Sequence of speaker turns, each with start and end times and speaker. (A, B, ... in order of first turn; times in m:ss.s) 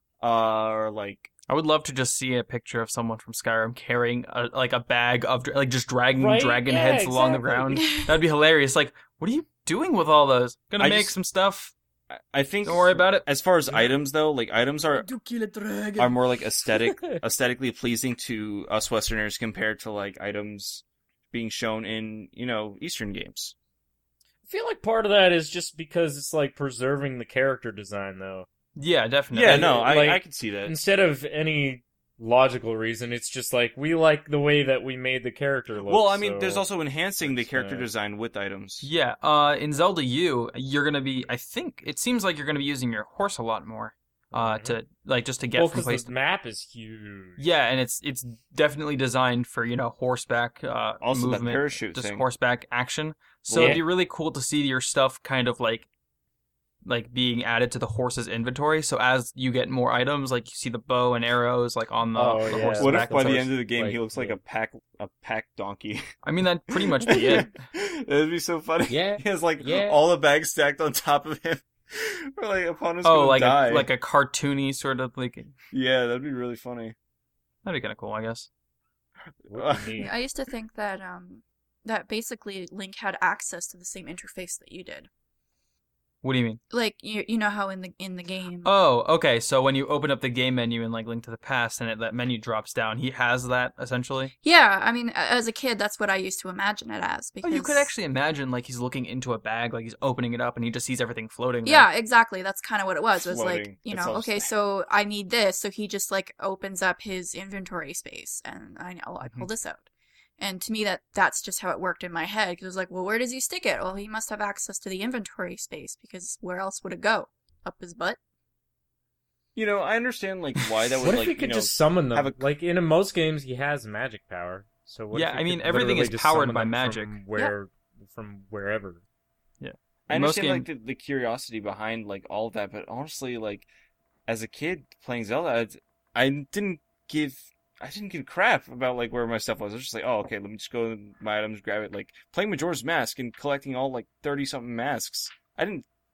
0:00.2-0:01.3 A
0:01.5-0:11.7 B
0:06.2-0:07.9 C
0:07.8-0:08.1 D
0:10.8-0:11.1 A
0:12.1-0:15.1 A
0:12.6-0:13.2 B
0:15.0-0:16.1 B
0:16.0-0:23.5 A
0:16.8-0:17.2 C
0:24.5-0:28.5 C
0:28.8-0:29.7 B
0:29.3-0:30.8 A
0:29.4-0:36.6 C
0:35.8-0:38.9 A
0:37.2-0:37.9 C
0:38.8-0:46.1 B
0:44.3-0:44.8 C
0:45.5-0:47.4 C
0:47.4-0:55.9 B
0:51.0-0:52.2 A
0:53.4-0:53.8 A
0:53.5-0:53.8 C
0:56.8-1:03.5 B
1:02.1-1:04.4 C
1:02.5-1:06.0 A
1:06.2-1:07.5 B
1:06.7-1:13.9 A
1:08.9-1:10.0 C
1:13.0-1:15.5 B
1:15.7-1:16.9 A
1:17.6-1:18.5 B
1:19.4-1:20.1 A
1:19.5-1:20.1 C
1:20.0-1:25.1 D
1:26.2-1:26.6 B
1:26.7-1:28.7 D
1:28.6-1:34.3 B
1:34.4-1:37.9 D
1:37.4-1:41.9 B
1:41.6-1:49.9 D
1:43.2-1:44.5 A
1:50.4-1:58.2 D
1:59.5-2:02.4 A
2:01.0-2:09.0 C
2:05.1-2:07.2 B
2:09.6-2:10.7 B
2:10.1-2:13.7 A
2:14.3-2:25.8 A